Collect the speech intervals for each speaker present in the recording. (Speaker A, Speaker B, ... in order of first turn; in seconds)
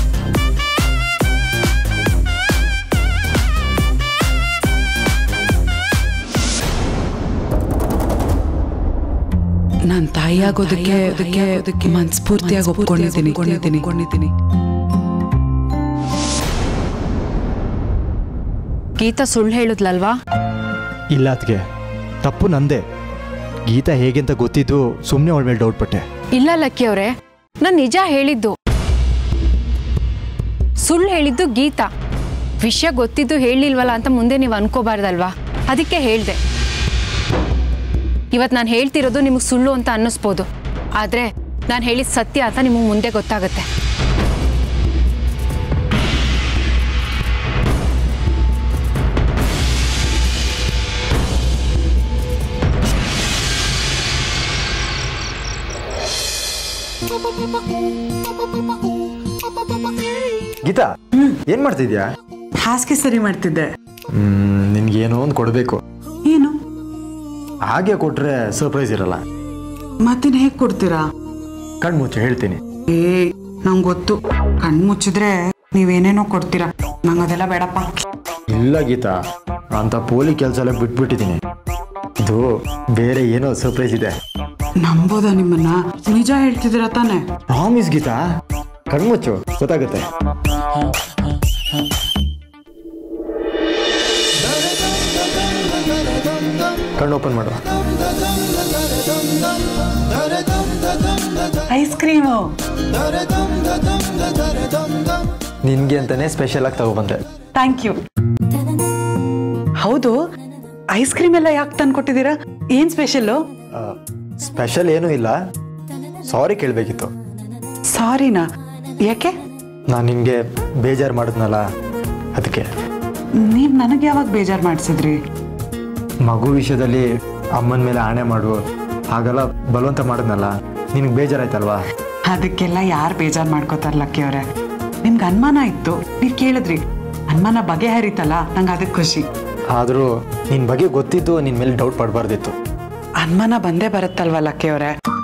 Speaker A: 9.9-14.3, 62.6-63.7, 66.2-66.5, 70.0-71.0, 72.9-77.9, 84.8-87.2, 101.7-102.4, 107.5-108.0, 109.8-110.2, 110.9-113.4, 117.9-118.4, 119.0-119.3, 123.4-125.2, 132.2-134.4, 135.0-139.2, 143.2-144.9
Speaker B: 10.4-11.6, 12.3-13.8, 19.0-20.2, 26.3-28.5, 30.8-31.9, 32.6-36.4, 38.3-43.6
Speaker C: 21.1-21.6, 22.2-22.8, 23.7-26.0, 61.5-62.0, 64.1-65.8, 67.7-69.2, 71.8-72.6, 78.5-79.2, 79.7-81.4, 82.2-84.1, 87.5-88.2, 88.9-90.1, 97.0-97.6, 105.6-107.2, 113.8-115.3, 116.3-117.1, 119.9-121.6, 122.3-122.7, 126.2-127.0, 127.6-128.6, 129.1-131.8, 139.7-142.5